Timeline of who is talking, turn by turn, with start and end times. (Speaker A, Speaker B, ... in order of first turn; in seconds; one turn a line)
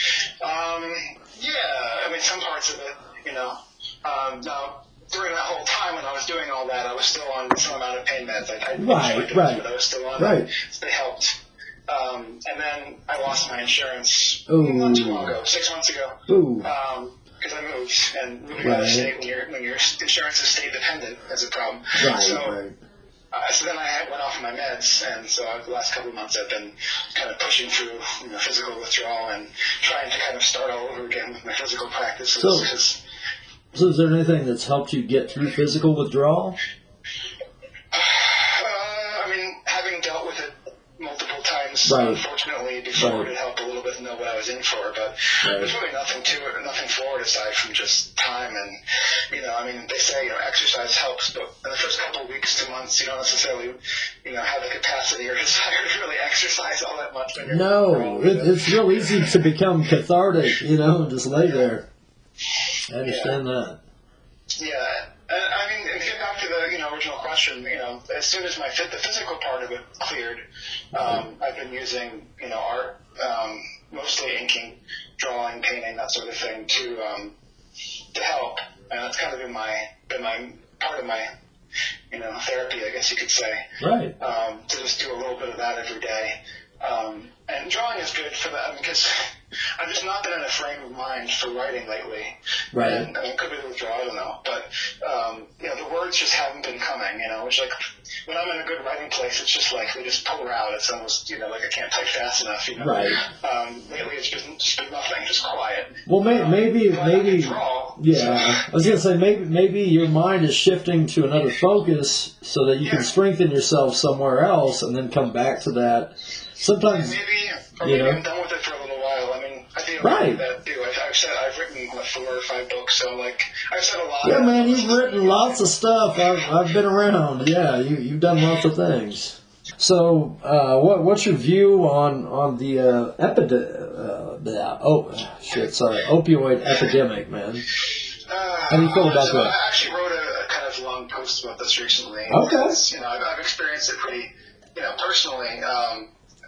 Speaker A: 0.4-11.3
Speaker B: 8.8-9.6
Speaker B: 10.2-10.5
Speaker A: 11.9-22.6
Speaker B: 14.5-15.4
Speaker B: 16.3-16.7
Speaker B: 18.6-19.1
Speaker B: 21.9-22.8
Speaker A: 23.3-33.0
Speaker B: 32.4-32.7
Speaker B: 33.7-36.6
Speaker A: 37.9-48.8
Speaker B: 41.9-42.2
Speaker B: 43.0-43.3
Speaker B: 45.4-45.7
Speaker A: 49.3-59.5
Speaker B: 57.4-61.9
Speaker B: 62.9-63.8
Speaker A: 63.0-63.4
Speaker A: 64.6-70.4
Speaker A: 70.9-77.3
Speaker B: 70.9-71.2
Speaker A: 78.1-81.3
Speaker A: 82.1-83.6
Speaker B: 83.8-84.1
Speaker A: 84.2-89.1
Speaker A: 89.8-97.7
Speaker B: 92.7-93.1
Speaker A: 98.2-109.0
Speaker B: 102.8-103.2
Speaker B: 106.1-117.1
Speaker A: 112.8-113.1
Speaker A: 116.9-125.6
Speaker B: 117.8-118.2
Speaker B: 120.0-120.4
Speaker B: 124.2-137.6
Speaker A: 138.3-146.1
Speaker B: 138.7-139.5
Speaker B: 142.3-142.8